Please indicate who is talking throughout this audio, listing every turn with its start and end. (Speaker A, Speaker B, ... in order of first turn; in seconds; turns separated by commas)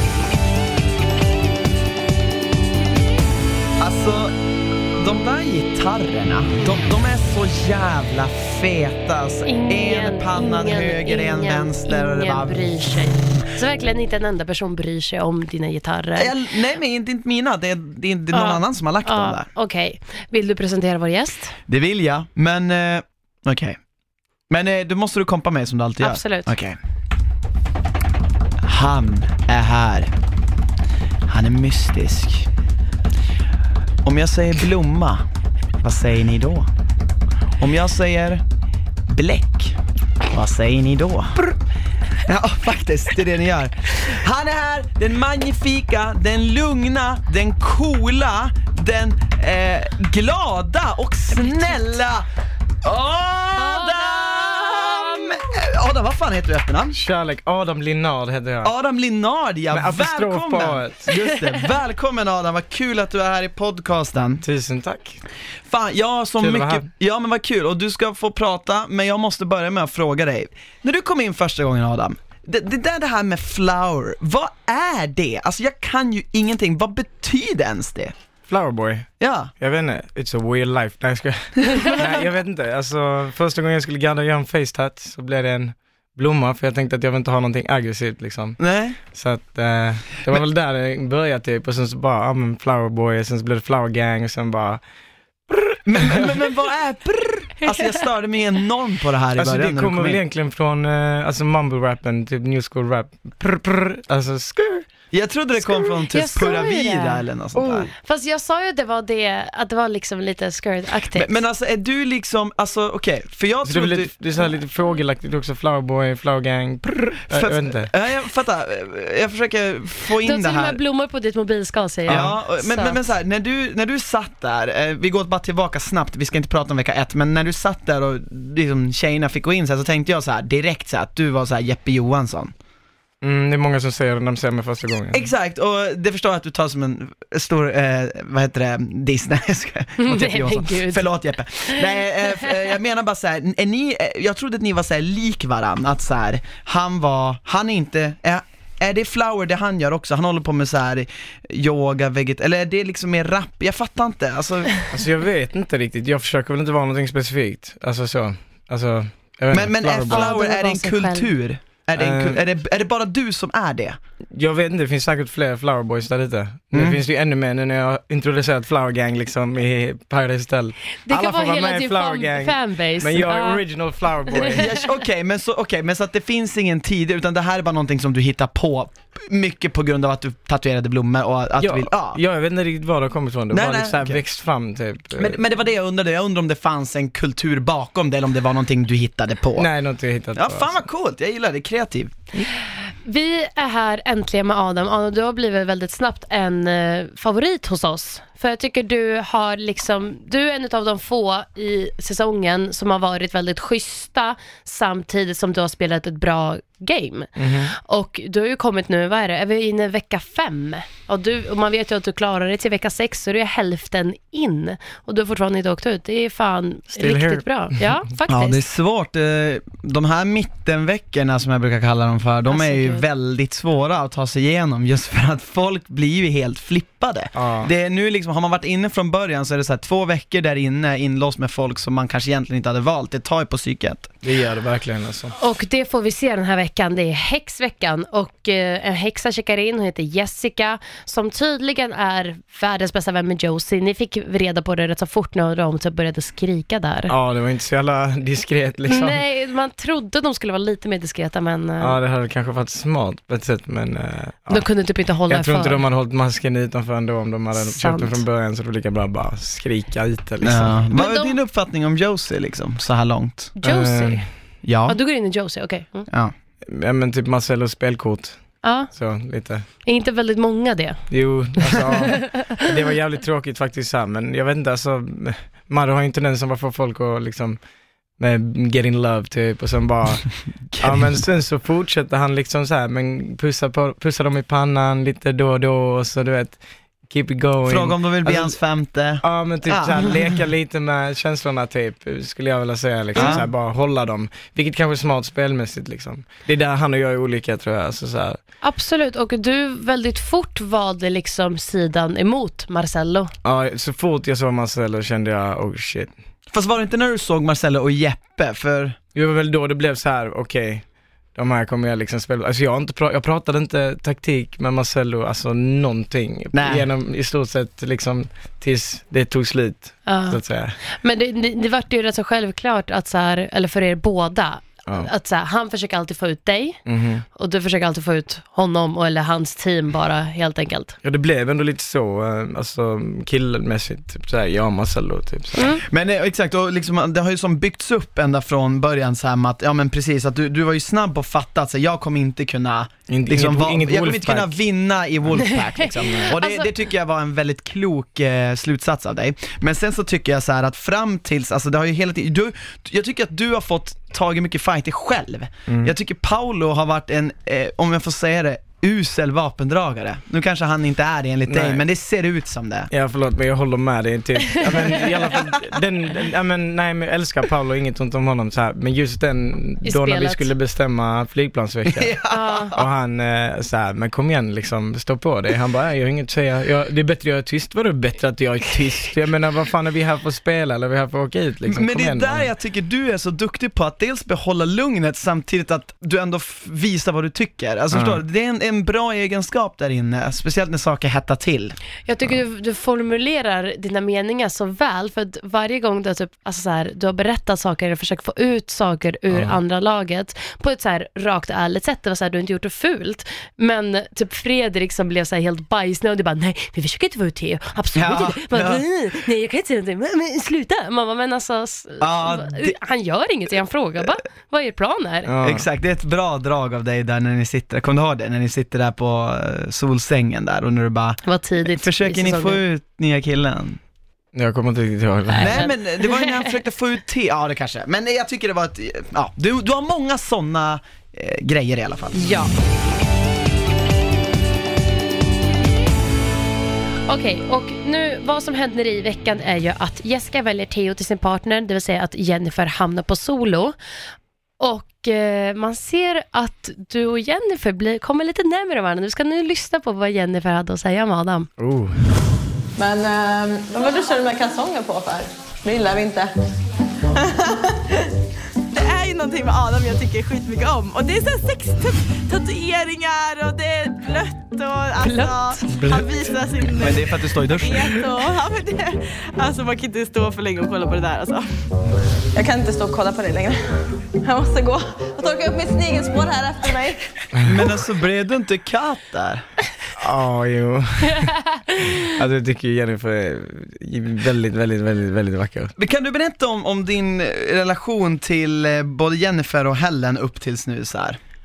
Speaker A: 3.8-4.3, Speaker A: 5.0-12.6, Speaker B: 9.5-16.3, Speaker A: 16.2-19.4, Speaker B: 18.3-21.5, Speaker A: 21.7-23.8, Speaker A: 24.5-26.8, Speaker B: 26.0-26.5, Speaker A: 28.6-30.1, Speaker A: 31.3-32.5, Speaker A: 34.0-35.2, Speaker A: 35.8-36.7, Speaker A: 37.6-38.4, Speaker A: 39.1-39.8, Speaker A: 40.3-41.5, Speaker A: 42.2-52.2, Speaker B: 51.3-51.9, Speaker A: 52.8-57.0, Speaker B: 53.5-55.4, Speaker C: 56.9-58.7, Speaker A: 58.6-64.4, Speaker C: 59.7-61.1, Speaker C: 64.4-65.2, Speaker A: 65.7-78.1, Speaker C: 66.4-66.9, Speaker C: 78.5-94.8, Speaker A: 79.2-79.5, Speaker A: 88.6-89.0, Speaker C: 95.5-96.3, Speaker A: 95.8-100.2, Speaker C: 99.3-104.8, Speaker A: 105.1-107.9, Speaker B: 105.7-107.2, Speaker C: 107.6-107.9, Speaker B: 107.9-111.3, Speaker A: 111.1-114.5, Speaker C: 113.6-117.9, Speaker A: 117.3-120.8, Speaker B: 120.2-123.0, Speaker C: 122.0-122.3, Speaker A: 122.1-132.5, Speaker C: 133.2-135.3, Speaker A: 135.1-154.9, Speaker B: 140.0-141.1, Speaker C: 154.9-160.3, Speaker A: 159.5-164.0, Speaker B: 160.0-161.3, Speaker C: 161.9-162.4, Speaker C: 164.3-174.7, Speaker A: 166.7-167.0, Speaker B: 171.0-173.6, Speaker A: 174.4-182.2, Speaker C: 181.6-185.4, Speaker A: 183.5-184.2, Speaker A: 185.2-189.7, Speaker C: 189.6-190.8, Speaker A: 190.3-192.2, Speaker B: 193.0-207.3, Speaker C: 207.4-207.7, Speaker B: 207.8-218.6, Speaker C: 216.9-217.9, Speaker A: 218.3-234.1, Speaker B: 222.5-223.0, Speaker C: 227.3-227.7, Speaker C: 234.2-235.3, Speaker B: 235.4-247.1, Speaker C: 247.1-249.2, Speaker B: 248.9-252.0, Speaker C: 251.8-254.7, Speaker B: 254.5-255.8, Speaker C: 255.3-260.8, Speaker B: 257.5-258.2, Speaker A: 260.4-263.6, Speaker B: 260.9-261.4, Speaker B: 263.6-264.2, Speaker C: 263.6-264.2, Speaker A: 264.6-265.0, Speaker B: 264.9-266.1, Speaker C: 266.6-269.6, Speaker B: 268.6-268.9, Speaker B: 269.8-272.4, Speaker C: 271.1-277.6, Speaker C: 278.2-288.6, Speaker A: 280.7-281.1, Speaker A: 287.7-290.4, Speaker C: 289.2-298.4, Speaker B: 293.1-293.4, Speaker A: 293.1-293.4, Speaker B: 298.6-303.3, Speaker C: 303.4-306.1, Speaker A: 306.5-309.0, Speaker C: 309.1-320.8, Speaker A: 316.5-316.9, Speaker B: 320.1-320.4, Speaker B: 320.9-326.8, Speaker C: 326.9-327.2, Speaker B: 327.3-331.0, Speaker C: 331.0-335.7, Speaker B: 335.6-335.8, Speaker A: 335.9-362.9, Speaker C: 343.1-344.5, Speaker B: 345.8-346.7, Speaker C: 355.7-355.9, Speaker C: 361.4-361.8, Speaker C: 362.9-372.1, Speaker B: 369.8-370.5, Speaker A: 371.9-372.7, Speaker B: 372.3-372.7, Speaker C: 372.7-382.5, Speaker A: 381.7-391.8, Speaker C: 387.9-388.2, Speaker B: 392.1-415.3, Speaker C: 399.3-399.6, Speaker A: 407.9-408.8, Speaker A: 412.0-412.8, Speaker C: 415.2-415.6, Speaker A: 415.4-423.8, Speaker B: 421.2-422.6, Speaker C: 424.3-425.7, Speaker B: 425.3-426.5, Speaker A: 425.4-432.4, Speaker B: 432.1-432.5, Speaker B: 437.1-443.7, Speaker B: 444.6-451.5, Speaker C: 451.6-451.9, Speaker D: 452.8-456.3, Speaker E: 458.7-471.6, Speaker B: 465.1-465.6, Speaker A: 466.7-468.0, Speaker D: 472.4-473.5, Speaker D: 474.3-476.9, Speaker E: 475.2-475.6, Speaker E: 476.3-476.9, Speaker A: 477.4-479.4, Speaker C: 480.0-481.3, Speaker C: 482.0-485.7, Speaker A: 485.8-491.2